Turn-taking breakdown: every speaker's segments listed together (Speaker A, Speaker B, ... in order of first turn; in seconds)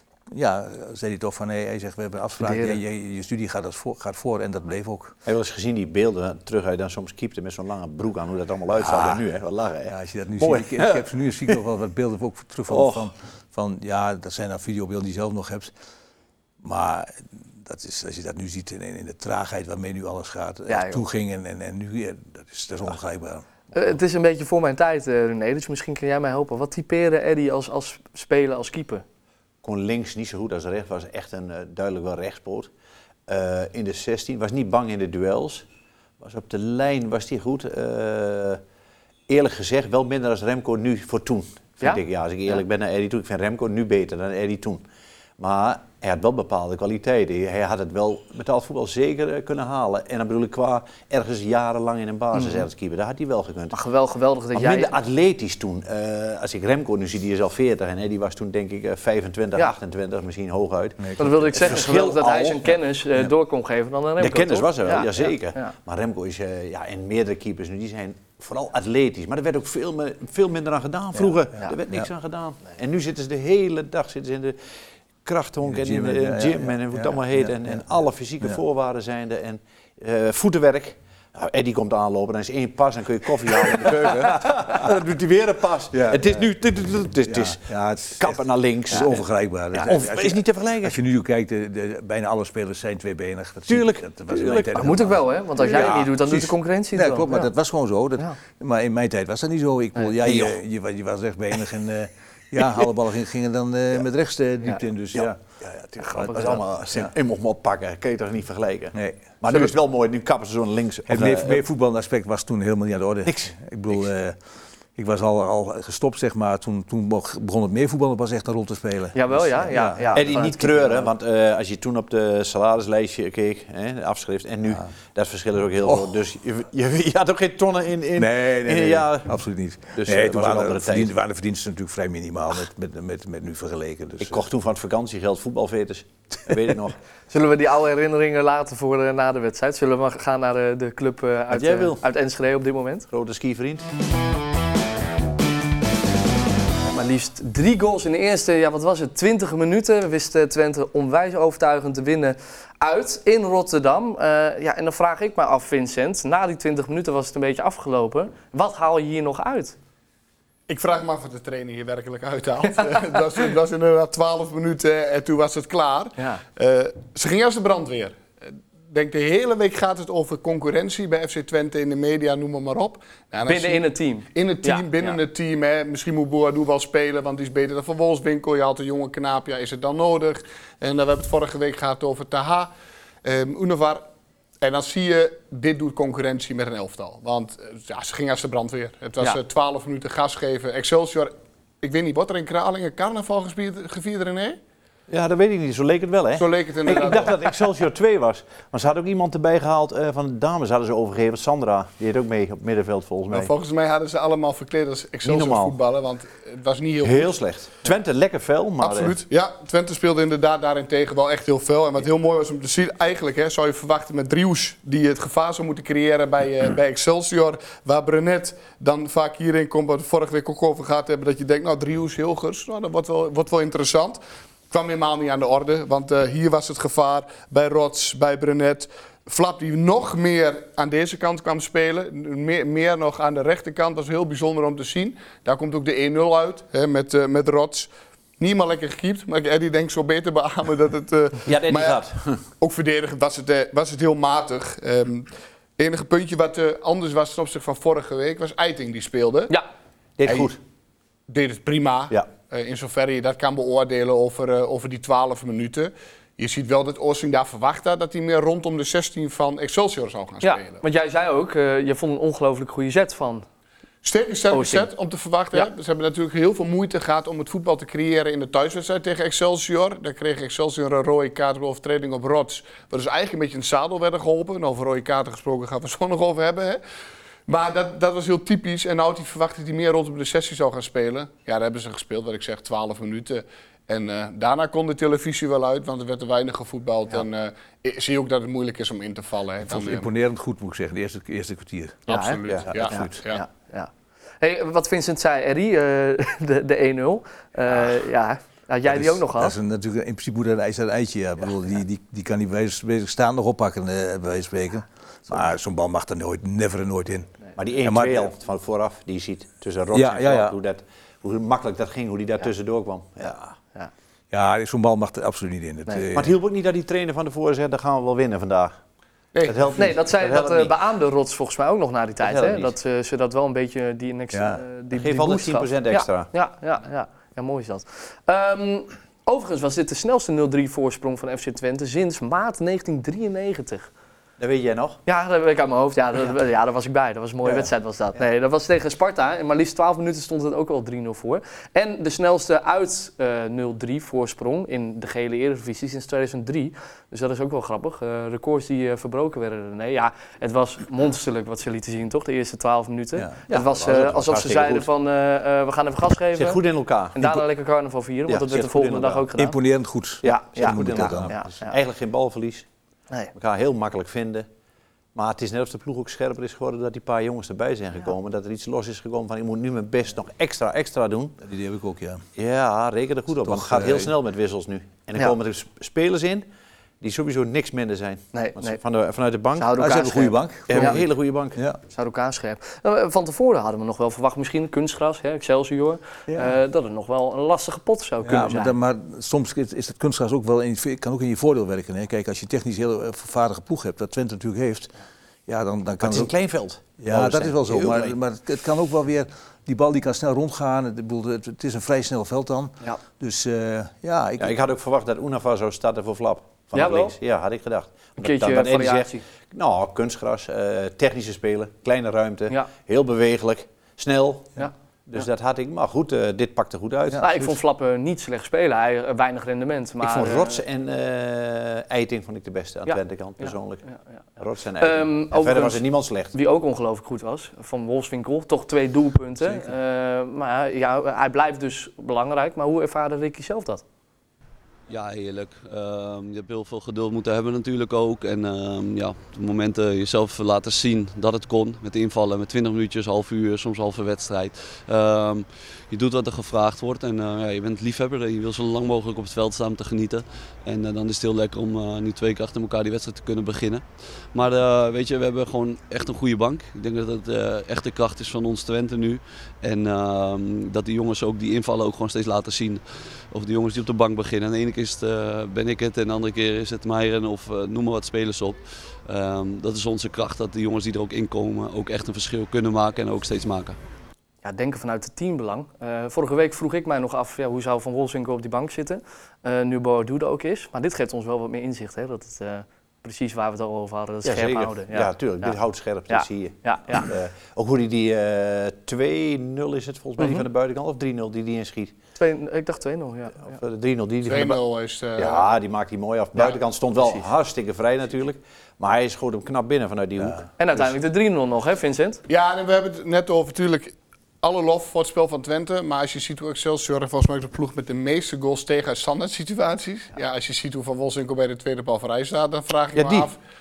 Speaker A: 0.3-5.2, 8.8-9.2, 9.9-15.7, 16.6-23.4, 61.0-61.7, 75.7-77.8, 83.8-84.9, 85.9-86.4, 87.2-88.4, 88.9-107.1, 108.9-109.2, 111.1-114.4, 115.0-120.2, 128.2-134.4, 289.6-292.1, 292.7-293.1, 298.9-307.3, 307.8-308.3, 309.9-310.6, 314.3-316.3, 324.3-324.6, 359.4-361.4, 371.4-372.2, 373.4-374.1, 379.8-381.8, 386.3-386.5, 388.2-394.9, 395.5-396.3, 397.0-404.5, 417.1-417.5
Speaker B: 2.4-2.8, 20.7-21.0, 23.7-29.0, 52.3-52.6, 53.7-54.9, 61.2-65.7, 94.8-97.5, 106.1-106.3, 119.1-121.1, 137.3-143.1, 146.9-159.8, 173.5-175.2, 260.4-263.4, 264.5-264.9, 292.1-293.9, 294.4-299.5, 319.7-333.9, 335.1-356.6, 357.1-359.6, 360.2-361.7, 378.3-378.8, 379.6-381.0, 381.9-388.8, 406.7-407.1, 408.2-409.2, 417.2-420.6, 422.9-424.1, 424.8-433.8, 474.4-485.6, 486.1-487.1, 490.2-490.4, 492.2-493.6, 500.6-502.2
Speaker C: 5.2-11.1, 12.7-13.1, 29.6-32.7, 33.3-35.6, 36.2-38.6, 39.3-44.8, 45.4-53.8, 54.5-62.7, 64.2-74.6, 75.2-91.0, 93.7-95.1, 95.7-96.0, 100.2-100.5, 106.1-111.6, 113.2-113.5, 120.1-129.3, 129.9-131.1, 134.2-136.9, 141.5-142.0, 143.1-143.8, 195.1-203.5, 205.2-205.8, 207.0-209.2, 241.4-242.4, 250.2-250.6, 307.6-313.5, 316.1-318.7, 319.4-320.7, 322.2-322.7, 324.9-326.3, 334.4-335.0, 353.5-354.9, 356.3-357.2, 358.3-359.3, 360.2-362.7, 363.3-364.4, 365.1-371.4, 372.4-376.4, 377.0-379.8, 380.7-381.6, 396.0-398.2, 404.4-417.2, 420.0-423.8, 424.4-426.3, 484.2-491.9, 493.4-494.6, 495.2-500.9, 512.9-513.3
Speaker D: 160.7-168.2, 168.9-182.7, 183.2-184.0, 184.6-194.6, 196.4-197.3, 203.3-207.3, 208.8-224.2, 224.7-242.0, 242.6-249.5, 251.3-260.8, 264.0-276.8, 277.5-290.1, 292.1-293.4, 319.3-319.8, 494.2-495.5, 502.3-513.4
Speaker E: 434.9-473.8